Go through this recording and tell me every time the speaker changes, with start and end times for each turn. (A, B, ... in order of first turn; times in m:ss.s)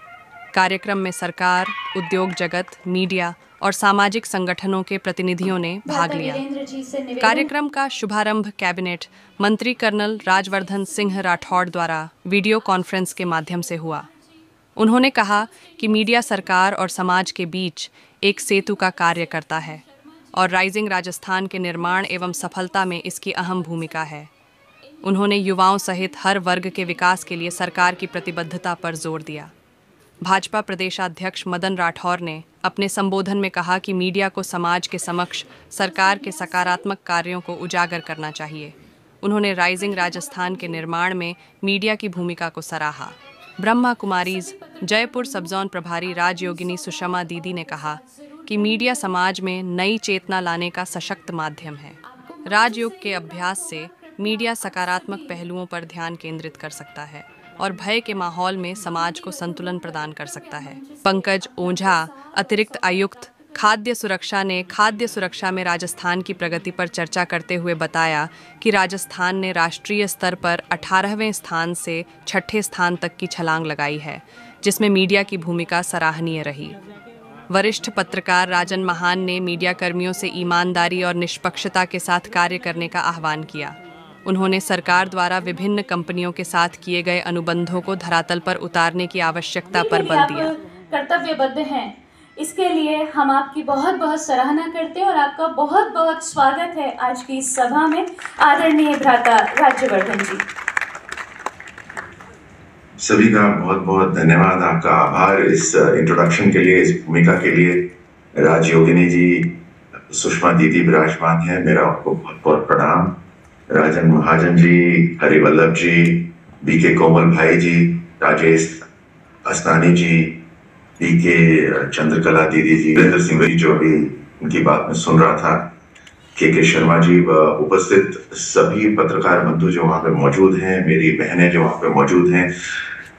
0:00.5-0:06.4 A
0:05.8-0:07.5 B
0:07.2-0:14.1 A
0:14.8-0:19.8 A
0:20.3-0:24.3 A
0:25.0-0:29.5 A
0:30.2-1:16.8 A
0:44.3-0:45.5 B
0:46.2-0:49.2 B
0:52.1-0:55.3 B
0:59.1-0:59.7 B
1:00.3-1:03.3 B
1:17.5-1:30.5 A
1:29.7-1:40.4 B
1:43.0-1:49.5 C
1:50.1-1:53.2 C
1:53.7-1:58.8 C
1:59.4-2:00.4 C
2:01.0-2:05.7 C
2:06.4-2:12.5 C